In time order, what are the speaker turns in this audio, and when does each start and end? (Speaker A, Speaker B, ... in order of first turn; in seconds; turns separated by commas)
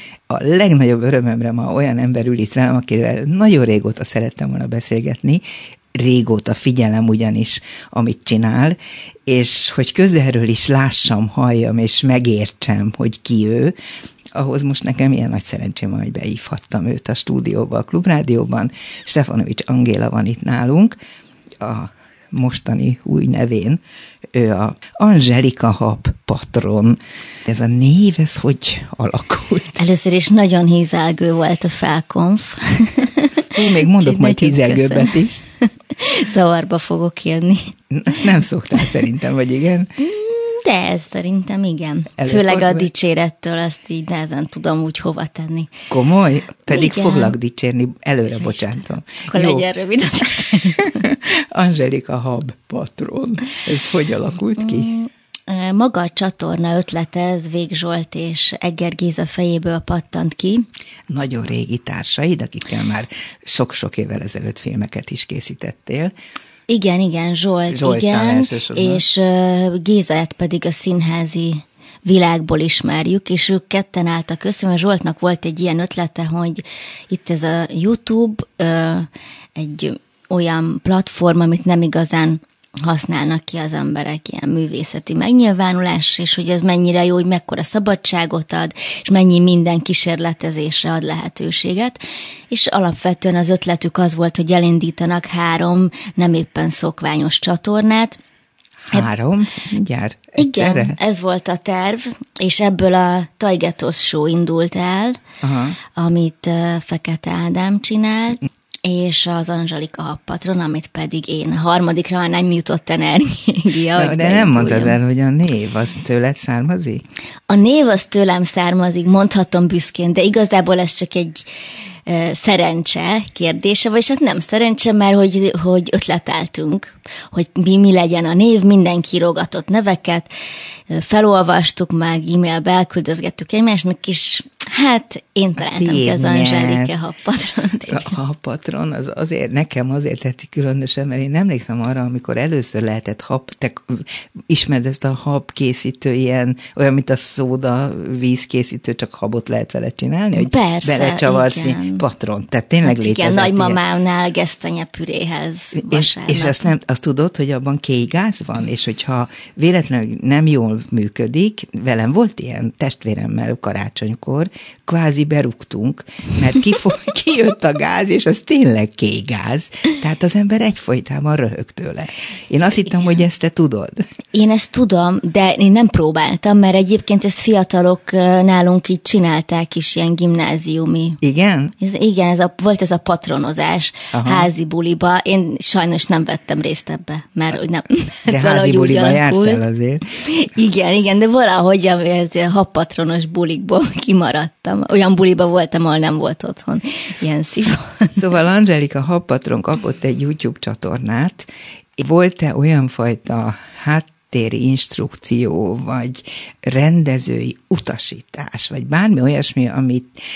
Speaker A: 0.3-5.4, Speaker A: 5.9-13.7, Speaker A: 14.3-20.9, Speaker A: 21.6-23.8, Speaker A: 24.3-29.8, Speaker B: 29.8-37.7, Speaker A: 33.5-35.4, Speaker A: 37.9-39.9, Speaker B: 40.0-45.7, Speaker A: 42.2-42.9, Speaker A: 45.9-49.6, Speaker B: 46.7-47.3, Speaker B: 48.3-51.0, Speaker A: 50.8-54.9, Speaker B: 54.6-60.6, Speaker A: 61.1-66.1, Speaker B: 66.7-92.0, Speaker A: 67.7-69.0, Speaker B: 92.5-98.2, Speaker A: 98.9-101.0, Speaker B: 100.4-105.2, Speaker A: 105.4-105.8, Speaker B: 105.8-115.0, Speaker A: 113.9-117.0, Speaker B: 117.5-121.5, Speaker B: 122.0-130.3, Speaker B: 130.9-138.1, Speaker A: 135.6-136.9, Speaker A: 137.8-153.8, Speaker B: 150.3-152.0, Speaker B: 152.8-156.7, Speaker A: 155.7-174.0, Speaker B: 172.9-173.2, Speaker B: 174.3-181.2, Speaker A: 181.2-181.7, Speaker B: 181.8-189.6, Speaker A: 184.1-184.5, Speaker A: 188.3-190.1, Speaker B: 190.2-198.2, Speaker A: 198.1-210.1